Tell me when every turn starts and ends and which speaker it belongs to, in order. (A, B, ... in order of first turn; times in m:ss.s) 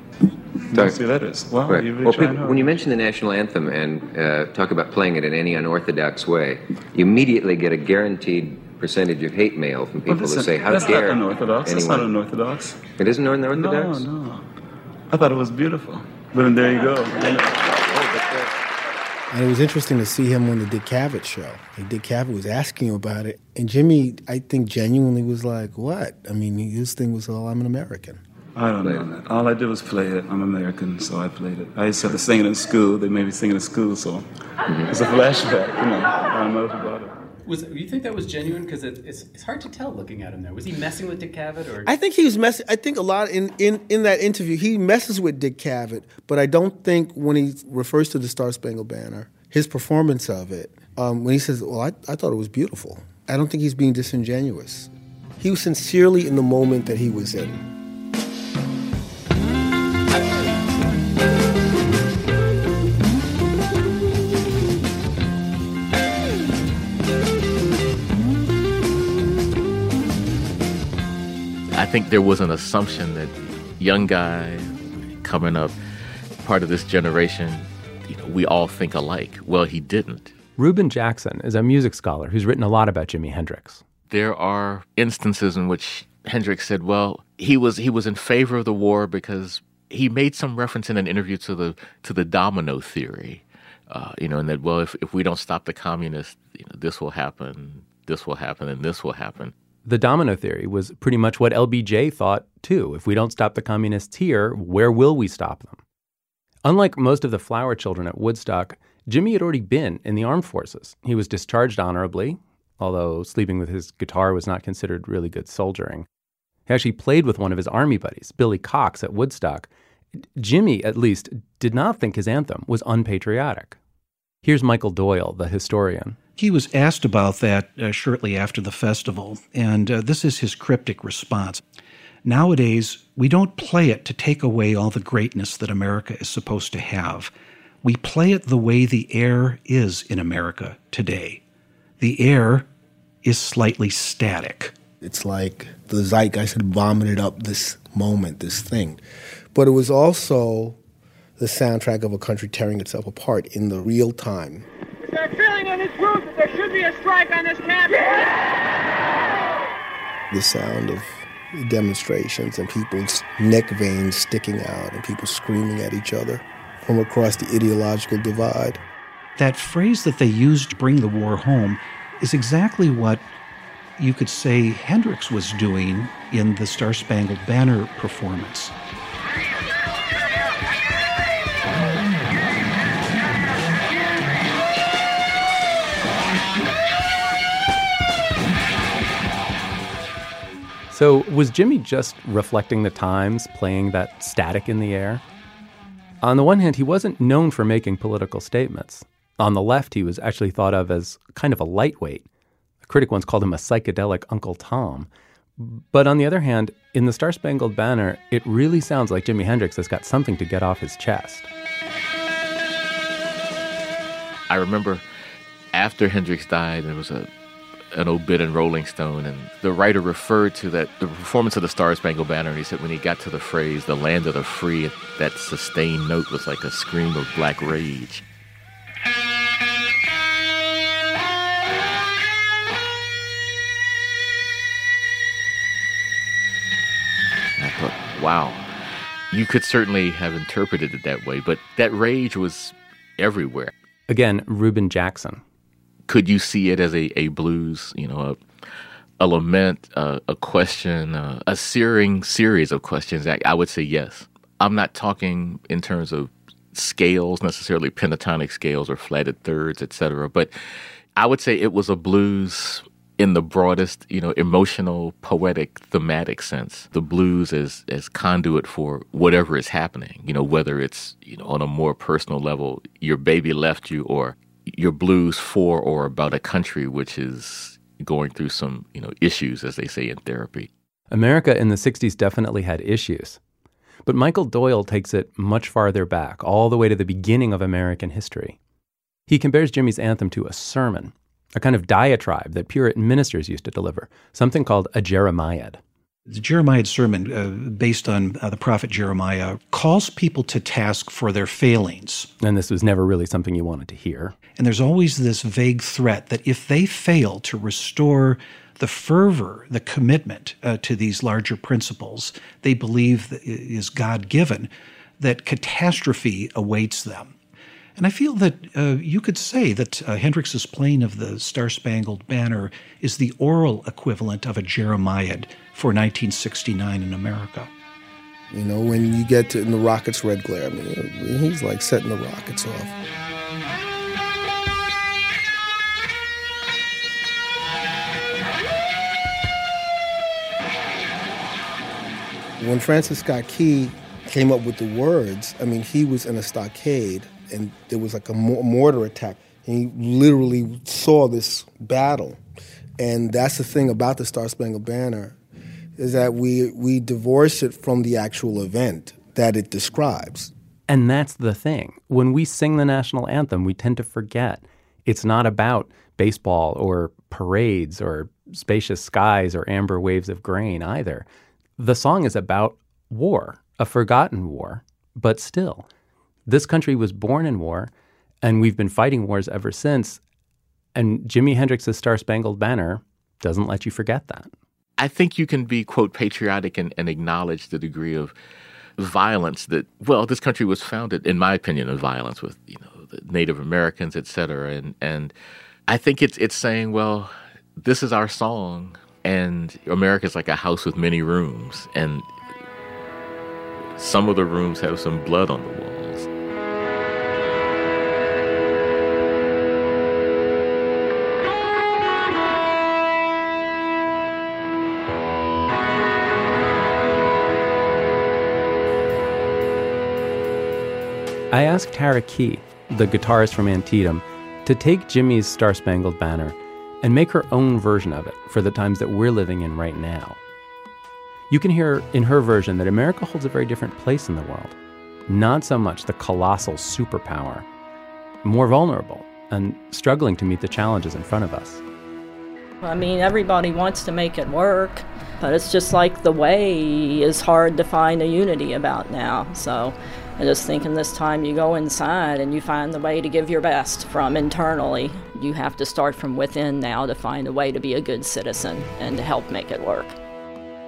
0:00.7-0:02.7 A
0:00.7-0:01.0 B
0:01.7-0:12.0 B
0:10.0-0:12.8 A
0:13.0-0:14.0 B
0:13.5-0:14.4 A
0:15.1-0:17.6 A
0:17.9-0:18.4 B
0:19.3-0:28.2 C
0:28.6-0:34.3 A
0:34.9-0:37.1 A
0:37.4-0:41.9 D
0:41.8-0:57.7 C
1:11.7-1:15.7 E
1:16.4-1:20.3 E
1:20.6-1:23.8 D
1:24.1-1:39.5 E
1:39.8-1:45.8 D
1:46.6-1:56.0 D
1:56.7-1:59.7 D
2:00.4-2:03.8 D
2:04.4-2:06.2 D
2:06.4-2:11.6 F
2:12.2-2:21.4 F
2:22.0-2:22.7 F
2:23.2-2:24.7 F
2:25.0-2:29.0 C
2:29.5-2:30.8 C
2:31.4-2:34.6 C
2:35.0-2:38.3 G
2:40.3-2:48.8 C
2:49.4-2:53.3 F
2:54.0-2:58.7 F
3:10.9-3:15.2 D
3:16.2-3:22.2 D
3:22.8-3:31.5 D
3:34.5-3:35.0 E
3:35.7-3:37.3 E
3:37.9-3:48.2 E
3:57.6-3:58.6 E
3:59.3-4:03.7 E
4:04.1-4:05.4 D
4:06.1-4:08.4 E
4:09.2-4:20.5 E
4:21.2-4:40.7 E
4:41.1-4:43.4 D
4:44.0-4:48.6 D
4:49.3-4:55.8 D
4:56.3-5:02.3 F
5:02.4-5:04.3 D
5:04.6-5:17.3 F
5:18.0-5:27.7 F
5:28.5-5:33.0 C
5:42.6-5:52.4 C
5:53.0-5:55.4 C
5:56.0-6:00.5 C
6:00.9-6:11.2 D
6:11.8-6:15.8 D
6:16.5-6:17.9 D
6:18.4-6:20.2 D
6:20.9-6:24.5 D
6:25.0-6:28.3 E
6:29.0-6:35.3 E
6:35.9-6:42.3 E
6:44.0-6:46.3 E
7:01.5-7:10.4 D
7:11.5-7:14.8 D
7:15.3-7:17.6 D
7:18.4-7:21.8 D
7:22.8-7:40.2 H